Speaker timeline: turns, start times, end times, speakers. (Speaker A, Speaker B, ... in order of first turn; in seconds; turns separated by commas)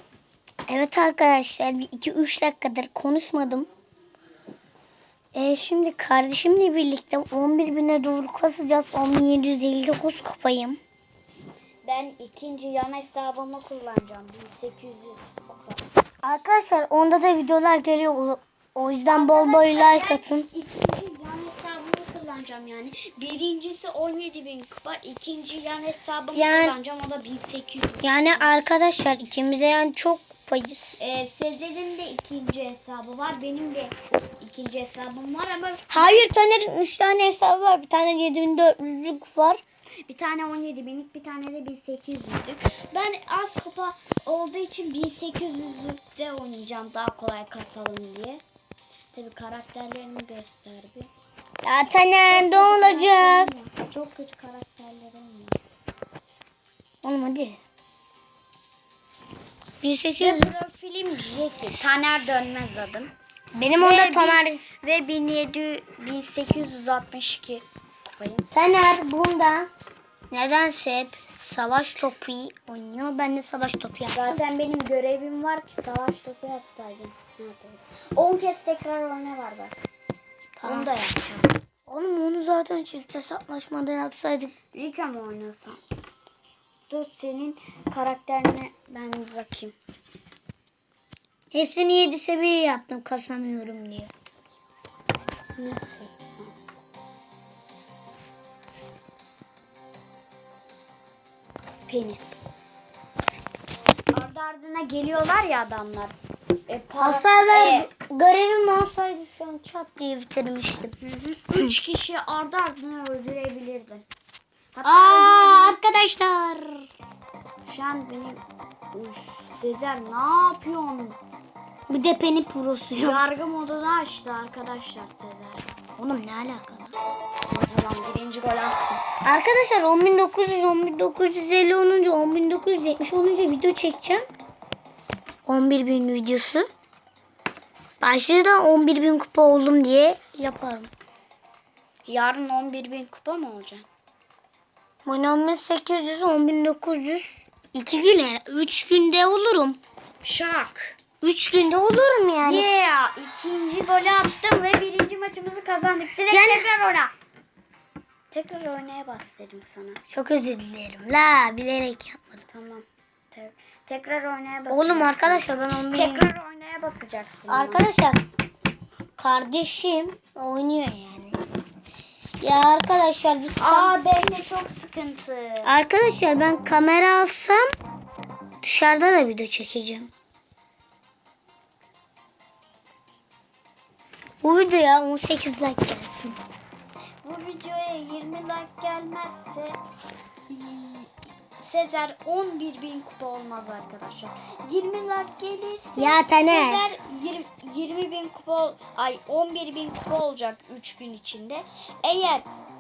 Speaker A: 0.7-3.7, Speaker A: 5.3-10.8, Speaker B: 11.8-15.8, Speaker A: 16.2-20.5, Speaker B: 19.1-28.5, Speaker A: 26.3-26.8, Speaker A: 28.0-31.0, Speaker B: 31.0-36.2, Speaker A: 35.9-39.6, Speaker B: 40.1-48.4, Speaker B: 49.1-51.1, Speaker A: 51.6-53.5, Speaker B: 52.3-55.6, Speaker A: 57.0-57.6, Speaker A: 59.8-60.5, Speaker B: 60.2-63.1, Speaker A: 63.5-64.6, Speaker B: 63.8-68.5, Speaker A: 68.5-69.7, Speaker A: 70.3-74.4, Speaker B: 74.1-79.8, Speaker A: 80.6-80.9, Speaker B: 80.6-81.5, Speaker A: 81.9-84.5, Speaker B: 84.7-85.8, Speaker B: 86.9-89.8, Speaker A: 91.5-94.1, Speaker B: 95.6-96.5, Speaker B: 101.9-102.2, Speaker B: 104.1-106.1, Speaker B: 106.7-107.9, Speaker A: 107.0-111.0, Speaker B: 111.0-114.1, Speaker B: 114.7-116.0, Speaker A: 114.8-116.9, Speaker B: 117.6-121.2, Speaker A: 121.9-123.2, Speaker B: 123.0-125.7, Speaker A: 126.0-127.0, Speaker B: 127.5-129.0, Speaker A: 129.2-134.3, Speaker A: 135.5-136.7, Speaker A: 138.0-140.9, Speaker B: 142.1-143.9, Speaker A: 145.1-149.8, Speaker B: 150.2-150.9, Speaker A: 151.2-152.7, Speaker B: 152.4-157.1, Speaker A: 156.3-156.7, Speaker B: 158.3-160.0, Speaker A: 160.1-162.4, Speaker B: 162.5-167.9, Speaker A: 164.7-166.3, Speaker A: 167.5-168.2, Speaker A: 169.2-171.4, Speaker A: 172.4-173.9, Speaker B: 173.6-175.7, Speaker A: 175.6-177.7, Speaker A: 178.6-180.1, Speaker A: 184.4-186.4, Speaker B: 187.2-189.8, Speaker B: 190.5-202.5, Speaker A: 196.0-196.9